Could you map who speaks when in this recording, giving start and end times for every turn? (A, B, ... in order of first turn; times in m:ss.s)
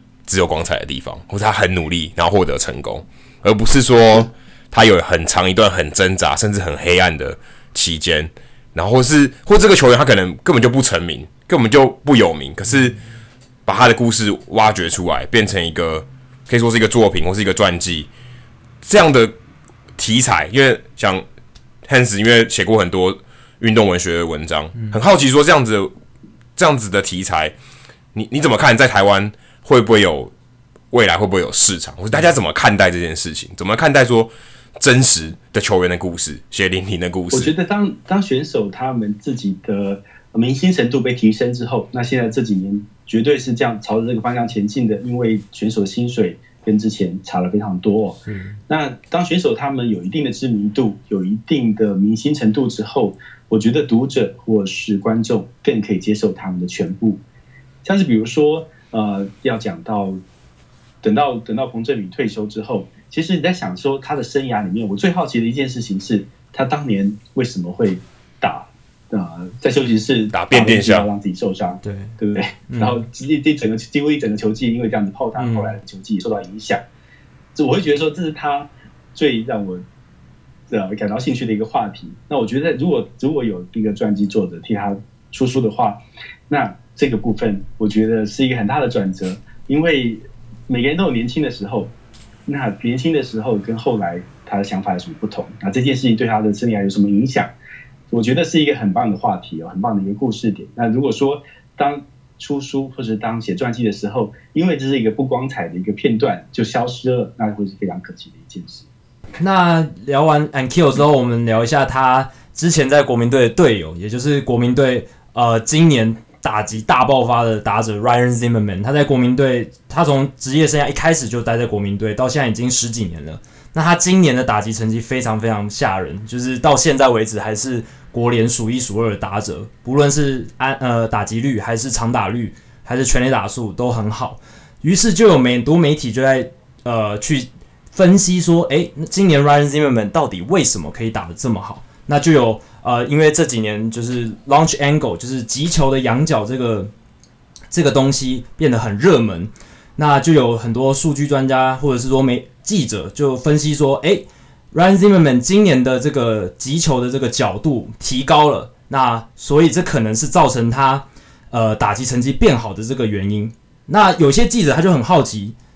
0:00.3-0:13.0 A
0:13.7-0:18.1 A
0:18.8-0:19.4 A
0:20.0-0:21.2 A
0:21.8-0:25.9 A
0:26.6-0:27.5 A
0:28.1-0:30.3 A
0:30.9-0:37.5 A
0:37.3-0:57.2 B
0:48.2-0:48.6 C
0:57.8-1:00.2 B
1:01.0-1:16.8 B
1:10.3-1:11.1 A
1:11.8-1:12.1 C
1:12.7-1:13.0 C
1:15.4-1:15.8 C
1:17.6-1:19.8 B
1:20.7-1:31.9 B
1:32.5-1:37.5 B
1:38.1-1:48.9 B
1:49.4-2:26.9 C
2:27.7-2:45.6 C